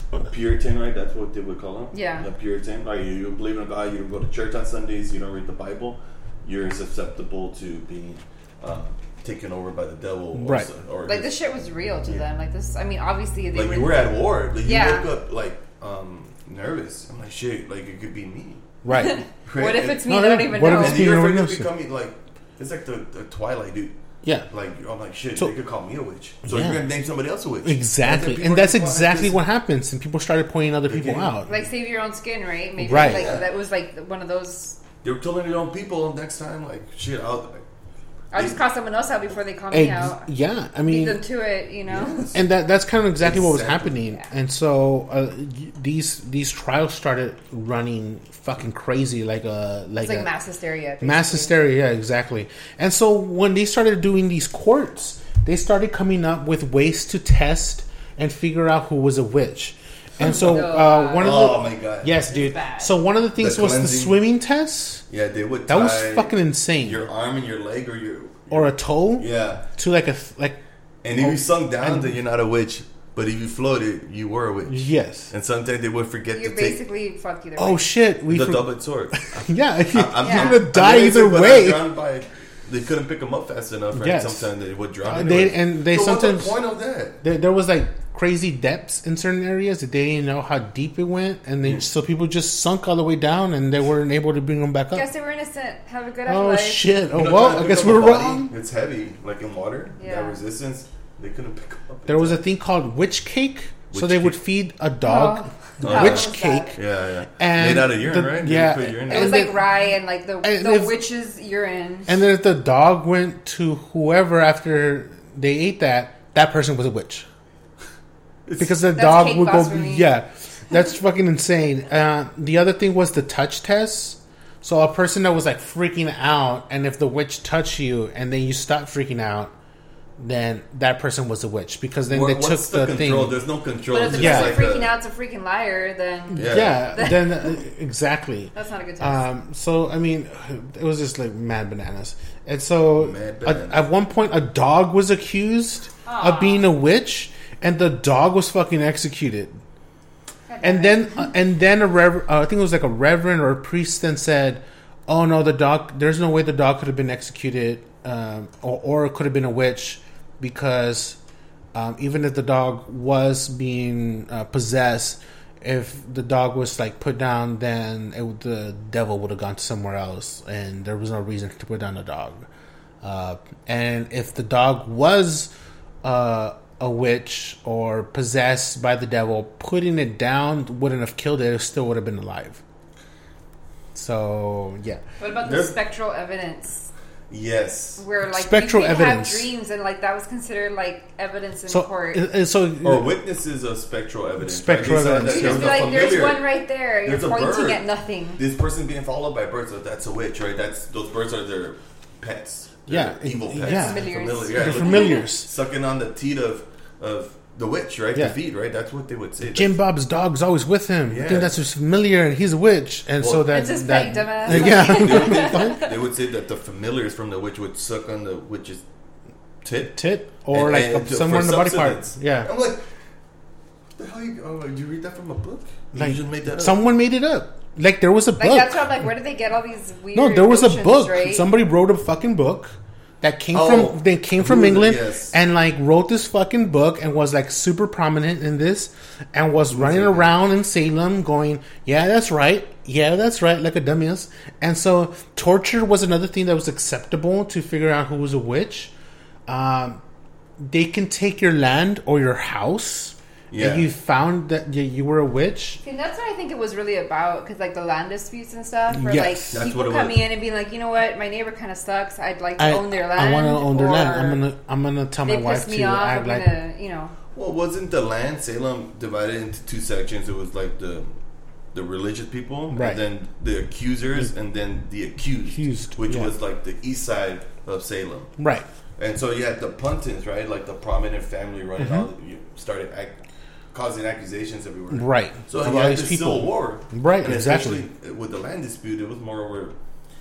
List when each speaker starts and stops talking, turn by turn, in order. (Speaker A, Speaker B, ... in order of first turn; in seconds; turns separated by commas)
Speaker A: 0.2-11.3, Speaker B: 1.9-2.2, Speaker C: 10.3-10.7, Speaker B: 11.1-14.0, Speaker A: 13.5-18.7, Speaker B: 14.6-15.1, Speaker C: 18.8-19.2, Speaker B: 18.9-21.0, Speaker A: 19.3-23.9, Speaker C: 20.1-21.7, Speaker C: 24.2-24.5, Speaker A: 24.5-29.4, Speaker C: 26.4-26.8, Speaker C: 27.6-31.6, Speaker A: 30.9-31.4, Speaker B: 31.4-34.8, Speaker C: 32.8-33.3, Speaker A: 32.9-33.5, Speaker A: 35.0-37.6, Speaker B: 38.3-40.3, Speaker A: 38.3-38.6, Speaker C: 39.7-41.2, Speaker B: 40.9-42.2, Speaker A: 41.9-42.5, Speaker C: 42.3-50.3, Speaker A: 43.2-44.0, Speaker B: 50.0-51.5, Speaker C: 51.0-65.0, Speaker B: 60.2-61.6, Speaker A: 61.1-62.3, Speaker B: 62.3-62.9, Speaker A: 63.4-64.2, Speaker A: 65.1-69.7, Speaker C: 65.7-67.0, Speaker C: 68.5-70.6, Speaker A: 71.0-76.8, Speaker C: 71.1-72.1, Speaker C: 74.7-75.3, Speaker B: 76.3-77.8, Speaker C: 77.6-78.6, Speaker A: 78.2-87.2, Speaker C: 79.2-81.8, Speaker B: 80.2-80.6, Speaker C: 83.9-84.5, Speaker C: 85.0-86.5, Speaker C: 87.2-95.0, Speaker B: 94.9-96.9, Speaker C: 96.3-98.5, Speaker A: 97.1-102.4, Speaker B: 100.0-100.4, Speaker C: 102.1-106.8, Speaker A: 103.9-104.4, Speaker B: 105.0-106.8, Speaker A: 105.8-109.5, Speaker C: 107.4-109.7, Speaker B: 109.1-112.1, Speaker C: 110.4-111.0, Speaker C: 112.1-117.3, Speaker A: 118.5-118.8, Speaker C: 118.6-129.5, Speaker B: 118.9-120.1, Speaker C: 130.2-133.3, Speaker A: 132.1-134.9, Speaker B: 133.9-137.5, Speaker C: 134.1-134.6, Speaker A: 136.3-136.8, Speaker C: 136.3-149.6, Speaker B: 138.5-139.2, Speaker A: 143.0-143.8, Speaker B: 146.0-146.7, Speaker B: 150.5-151.3, Speaker C: 150.6-161.2, Speaker C: 161.7-172.5, Speaker C: 173.0-175.5, Speaker C: 176.0-182.6, Speaker C: 183.9-185.0, Speaker B: 185.2-186.9, Speaker A: 185.4-185.8, Speaker A: 187.3-188.0, Speaker B: 188.0-192.2, Speaker C: 188.3-189.5, Speaker C: 191.7-193.1, Speaker A: 192.8-196.5, Speaker C: 194.4-195.9, Speaker B: 195.2-198.4, Speaker A: 197.0-209.8, Speaker C: 202.9-205.5, Speaker B: 203.6-205.2, Speaker C: 209.5-215.8, Speaker A: 211.1-211.5, Speaker A: 213.2-213.7, Speaker B: 213.5-215.9, Speaker A: 214.2-218.8, Speaker A: 219.6-220.0, Speaker C: 219.9-222.5, Speaker A: 220.5-223.0, Speaker A: 224.0-226.8, Speaker C: 225.9-229.1, Speaker B: 228.4-231.4, Speaker C: 230.1-248.9, Speaker A: 233.5-235.3, Speaker A: 239.7-240.3, Speaker C: 249.5-250.0, Speaker C: 250.6-255.8, Speaker A: 253.5-253.9, Speaker B: 255.8-264.4, Speaker C: 258.9-259.6, Speaker A: 259.5-260.2, Speaker C: 262.6-266.5, Speaker B: 265.2-267.1, Speaker A: 267.3-271.1, Speaker A: 271.7-278.4, Speaker C: 272.7-273.0, Speaker C: 275.5-276.3, Speaker C: 278.4-278.6, Speaker A: 279.0-283.2, Speaker C: 281.8-282.1, Speaker A: 283.7-289.8, Speaker C: 284.9-287.8